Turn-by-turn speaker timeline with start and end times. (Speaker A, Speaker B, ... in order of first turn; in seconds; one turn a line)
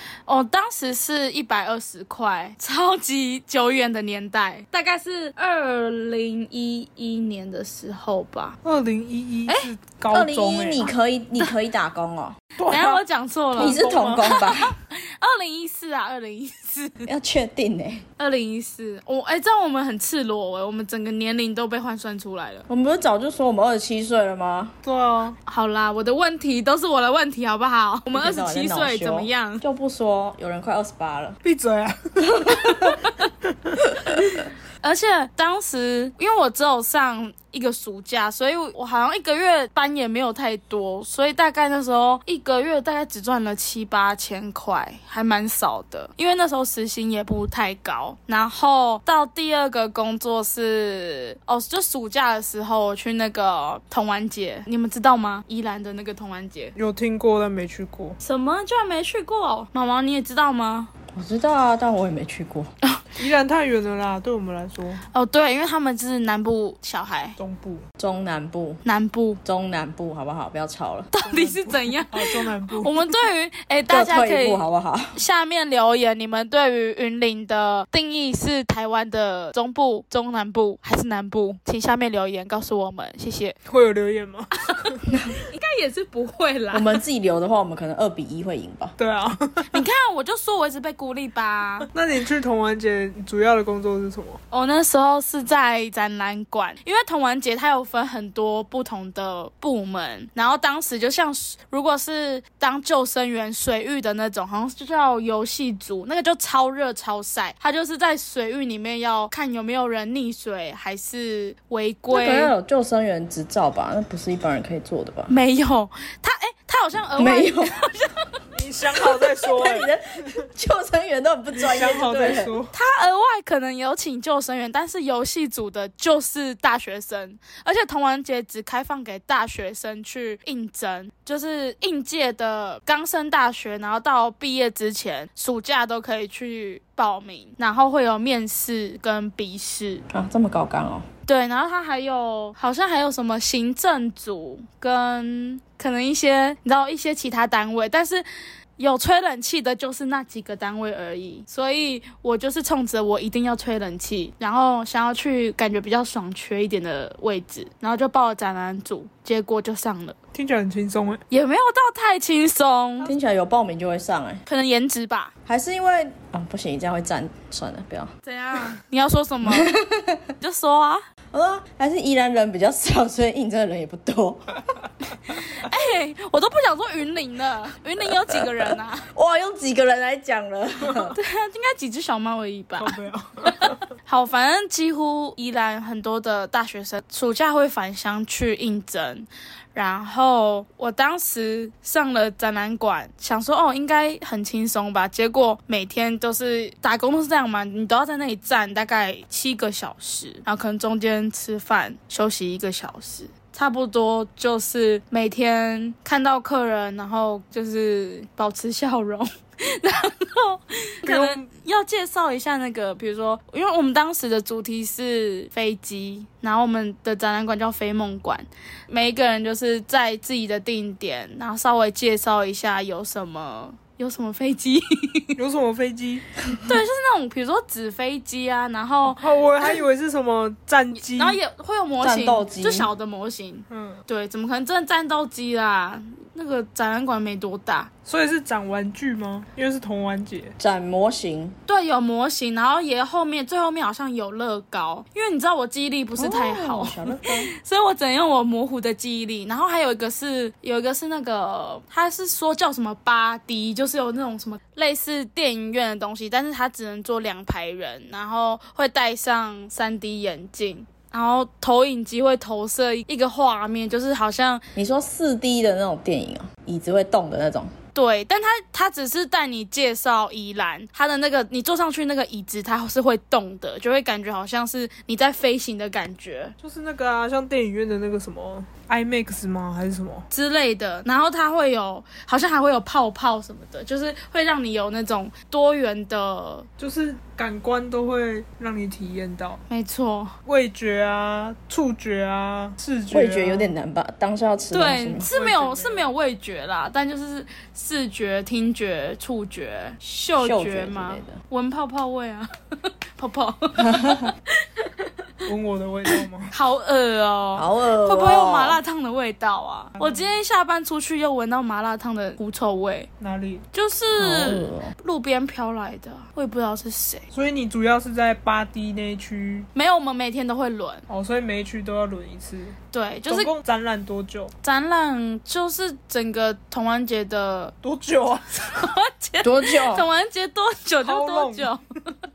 Speaker A: 0.3-8.6
Speaker B: 8.6-10.8
Speaker C: 10.1-12.4
Speaker B: 12.6-13.0
Speaker A: 12.7-17.1
Speaker B: 13.6-14.3
Speaker C: 13.6-14.8
Speaker C: 17.1-18.1
Speaker A: 18.2-22.7
Speaker C: 22.7-24.7
Speaker B: 24.8-25.4
Speaker A: 25.5-29.6
Speaker C: 28.1-31.4
Speaker B: 31.4-32.9
Speaker C: 32.2-33.0
Speaker A: 34.8-56.8
Speaker B: 56.8-58.2
Speaker A: 58.2-60.9
Speaker C: 61.1-62.7
Speaker B: 63.1-65.0
Speaker A: 65.1-67.4
Speaker B: 67.4-67.8
Speaker C: 68.0-68.8
Speaker A: 68.8-69.4
Speaker C: 69.4-71.1
Speaker A: 71.1-74.6
Speaker B: 71.2-73.1
Speaker C: 73.9-75.2
Speaker A: 75.2-83.6
Speaker B: 83.7-85.0
Speaker A: 84.8-87.0
Speaker C: 85.1-85.4
Speaker C: 86.7-89.0
Speaker B: 89.0-89.8
Speaker A: 89.7-91.9
Speaker B: 91.9-94.4
Speaker A: 94.5-112.5
Speaker C: 112.1-115.3
Speaker A: 115.3-118.4
Speaker C: 117.2-117.8
Speaker B: 118.5-120.4
Speaker C: 119.4-122.5
Speaker B: 121.5-122.7
Speaker A: 122.7-140.0
Speaker C: 140.1-141.1
Speaker A: 141.3-148.2
Speaker A: 148.8-160.2
Speaker B: 160.3-161.2
Speaker A: 161.3-163.1
Speaker C: 163.0-164.4
Speaker A: 164.5-165.3
Speaker C: 165.5-168.1
Speaker A: 168.2-169.7
Speaker C: 169.4-170.3
Speaker A: 170.4-171.0
Speaker C: 171.3-174.6
Speaker A: 175.3-179.1
Speaker C: 178.3-181.2
Speaker A: 181.1-183.0
Speaker B: 182.8-183.8
Speaker A: 183.6-225.4
Speaker B: 211.1-211.5
Speaker B: 225.4-226.2
Speaker A: 226.6-229.8
Speaker B: 229.1-231.4
Speaker A: 231.0-237.9
Speaker C: 232.0-232.9
Speaker B: 233.7-234.0
Speaker B: 238.1-240.6
Speaker C: 240.6-241.6
Speaker A: 241.7-264.6
Speaker C: 246.2-247.5
Speaker C: 264.8-267.7
Speaker A: 267.9-276.6
Speaker B: 276.6-280.3
Speaker A: 280.3-286.7
Speaker B: 286.8-289.6
Speaker A: 289.7-290.3
Speaker B: 290.5-293.7
Speaker C: 293.1-295.3
Speaker A: 294.7-305.3
Speaker B: 295.2-296.1
Speaker C: 300.4-301.4
Speaker C: 303.8-304.3
Speaker B: 305.5-306.5
Speaker A: 306.1-313.1
Speaker C: 307.6-308.8
Speaker B: 310.0-310.3
Speaker B: 313.2-313.6
Speaker A: 313.7-317.3
Speaker C: 314.2-314.9
Speaker B: 317.3-319.7
Speaker A: 319.7-321.0
Speaker B: 321.1-322.8
Speaker A: 322.9-323.5
Speaker B: 323.3-324.5
Speaker A: 324.6-327.7
Speaker B: 327.8-328.6
Speaker A: 328.6-331.8
Speaker C: 329.4-330.1
Speaker B: 331.0-331.8